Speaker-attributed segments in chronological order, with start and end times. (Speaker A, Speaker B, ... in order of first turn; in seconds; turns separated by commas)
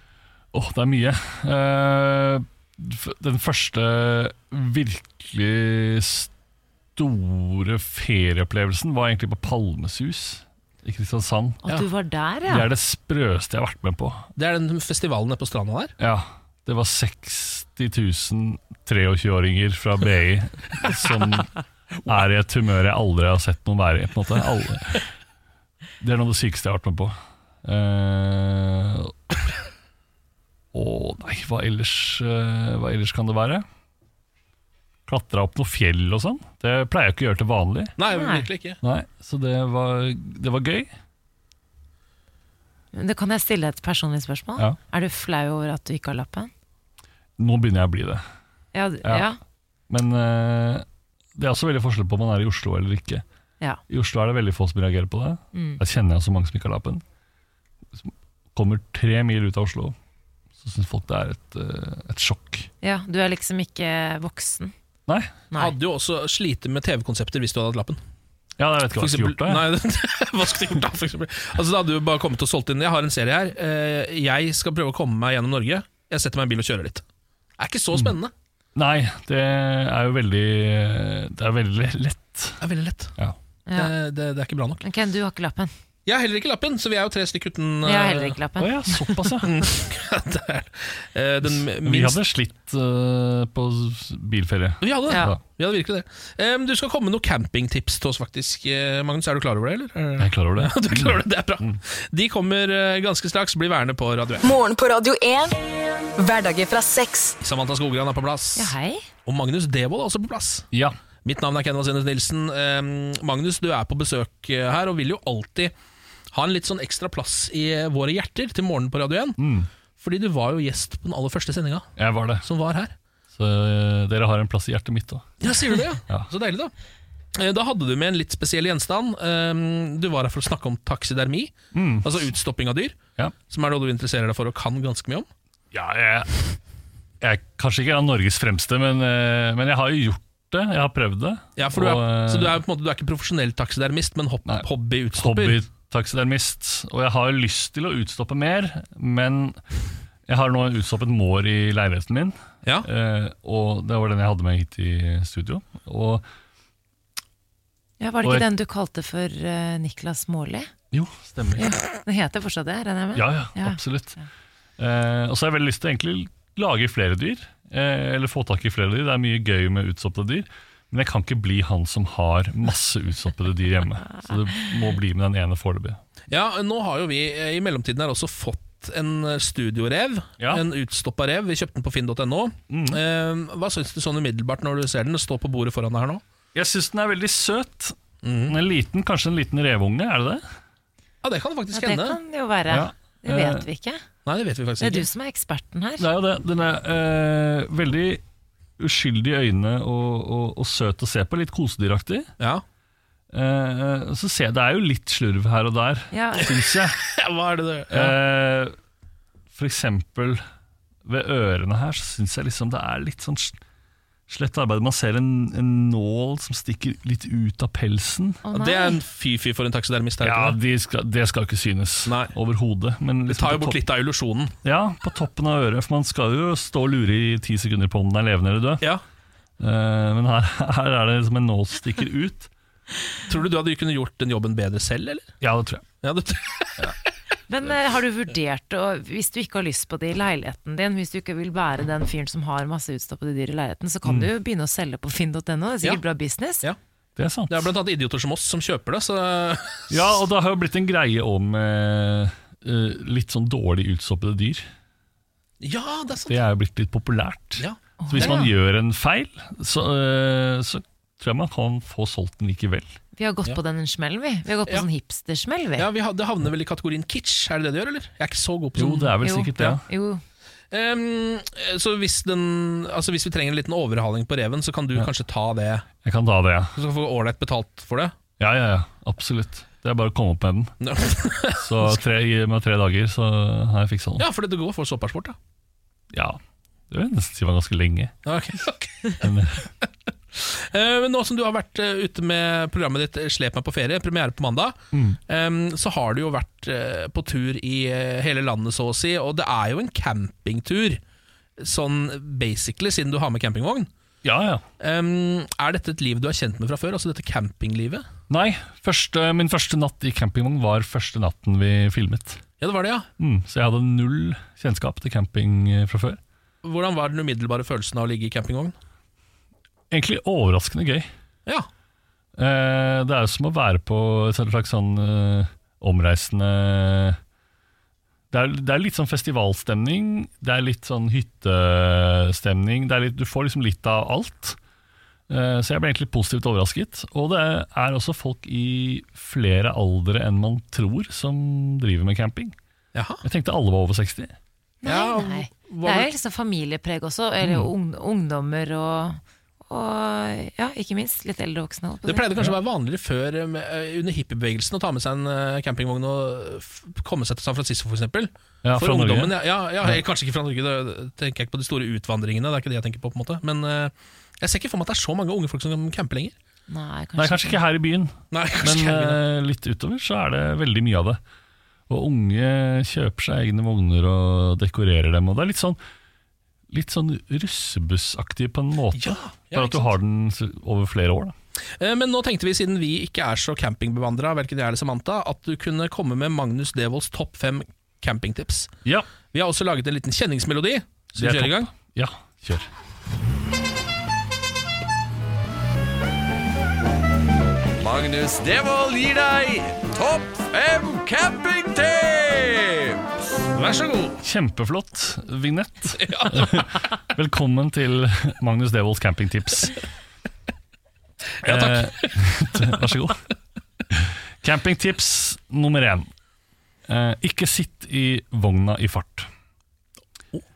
Speaker A: 0.5-6.3, Speaker A: 7.0-11.7, Speaker B: 11.6-12.7, Speaker A: 12.4-14.3, Speaker C: 14.3-15.9, Speaker A: 16.0-21.5, Speaker A: 22.1-25.0, Speaker A: 26.0-29.1, Speaker A: 30.7-33.6, Speaker A: 35.1-37.9, Speaker C: 38.0-38.8, Speaker B: 38.1-38.5, Speaker A: 38.8-40.9, Speaker B: 42.9-46.5, Speaker A: 47.4-48.2, Speaker B: 48.7-49.4, Speaker A: 49.0-49.3, Speaker A: 49.9-50.8, Speaker A: 51.4-53.2, Speaker A: 53.9-57.0, Speaker B: 55.5-55.8, Speaker A: 58.0-59.9, Speaker A: 60.6-62.7, Speaker B: 62.8-64.7, Speaker A: 65.1-65.4, Speaker C: 65.5-68.0, Speaker A: 68.6-69.7, Speaker C: 69.0-77.0, Speaker C: 77.6-78.3, Speaker A: 78.7-82.6, Speaker C: 82.6-83.1, Speaker B: 83.7-83.9, Speaker C: 83.7-84.8, Speaker B: 84.8-85.7, Speaker C: 86.0-88.4, Speaker B: 87.8-89.3, Speaker A: 88.5-89.6, Speaker C: 89.4-92.2, Speaker A: 91.4-95.4, Speaker C: 94.8-104.4, Speaker B: 95.1-95.3, Speaker A: 100.2-101.8, Speaker D: 104.4-105.6, Speaker D: 106.2-107.4, Speaker C: 107.4-108.7, Speaker B: 108.5-109.1, Speaker C: 109.2-110.7, Speaker C: 111.2-115.7, Speaker C: 116.3-119.4, Speaker A: 119.4-119.7, Speaker C: 120.0-121.9, Speaker A: 122.0-122.5, Speaker C: 122.4-122.9, Speaker A: 123.3-125.4, Speaker C: 125.4-126.7, Speaker C: 127.3-135.3, Speaker A: 131.7-132.3, Speaker A: 135.7-136.5, Speaker A: 137.2-142.6, Speaker C: 141.6-145.6, Speaker A: 144.4-149.6, Speaker A: 150.3-156.2, Speaker B: 158.0-160.7, Speaker A: 158.2-158.5, Speaker A: 160.9-161.8, Speaker B: 161.6-163.8, Speaker A: 163.1-164.2, Speaker A: 164.8-176.0, Speaker C: 176.3-186.2, Speaker A: 180.4-180.7, Speaker A: 182.7-183.0, Speaker A: 186.5-187.9, Speaker C: 188.2-188.6, Speaker A: 188.5-190.4, Speaker C: 191.2-192.2, Speaker B: 191.7-194.0, Speaker A: 192.7-193.7, Speaker C: 194.2-195.1, Speaker B: 194.8-196.1, Speaker A: 196.0-198.2, Speaker A: 198.8-202.3, Speaker A: 203.3-207.0, Speaker B: 206.1-206.5, Speaker C: 207.0-208.1, Speaker A: 207.9-208.7, Speaker A: 209.5-210.4, Speaker A: 211.0-213.6, Speaker A: 214.3-218.4, Speaker B: 218.4-219.0, Speaker C: 218.5-220.6, Speaker A: 220.2-223.8, Speaker C: 222.1-222.3, Speaker C: 223.3-224.5, Speaker A: 224.6-228.9, Speaker A: 229.6-232.5, Speaker C: 233.3-235.3, Speaker A: 235.4-235.8, Speaker C: 236.0-236.9, Speaker B: 237.5-246.6, Speaker A: 244.0-244.3, Speaker A: 247.2-247.7, Speaker C: 247.5-250.0, Speaker A: 249.9-254.7, Speaker C: 255.6-256.4, Speaker A: 256.3-263.0, Speaker C: 257.6-258.5, Speaker B: 258.0-258.5, Speaker B: 263.1-265.9, Speaker C: 265.8-269.2, Speaker A: 268.8-269.8, Speaker B: 269.2-270.2, Speaker C: 270.7-275.9, Speaker A: 276.0-276.7, Speaker C: 276.7-278.1, Speaker A: 278.4-280.7, Speaker C: 280.8-282.0, Speaker A: 281.6-284.2, Speaker C: 284.2-285.4, Speaker A: 286.1-288.1, Speaker C: 288.2-289.2, Speaker A: 289.2-289.7, Speaker C: 290.3-301.0, Speaker A: 294.9-295.2, Speaker C: 301.6-303.9, Speaker A: 304.2-304.6, Speaker C: 304.8-308.0, Speaker A: 308.3-312.4, Speaker C: 312.6-313.1, Speaker A: 313.2-316.2, Speaker C: 316.6-318.7, Speaker A: 319.9-321.1, Speaker A: 322.4-327.2, Speaker A: 328.3-334.6, Speaker A: 335.3-342.5, Speaker C: 342.9-343.2, Speaker A: 343.2-344.3, Speaker B: 344.8-352.3, Speaker C: 344.8-346.1, Speaker A: 347.4-347.7, Speaker C: 352.0-366.3, Speaker A: 358.6-360.0, Speaker B: 366.7-367.6, Speaker A: 367.1-371.2, Speaker C: 368.3-369.2, Speaker A: 371.9-375.8, Speaker A: 376.7-381.3, Speaker C: 378.9-379.9, Speaker C: 381.8-388.7, Speaker C: 389.3-391.7, Speaker A: 391.2-392.7, Speaker E: 397.8-403.0, Speaker C: 403.5-404.2, Speaker A: 404.2-409.8, Speaker C: 405.9-406.6, Speaker C: 411.4-412.1, Speaker A: 411.4-413.2, Speaker A: 413.9-416.1, Speaker A: 416.9-419.3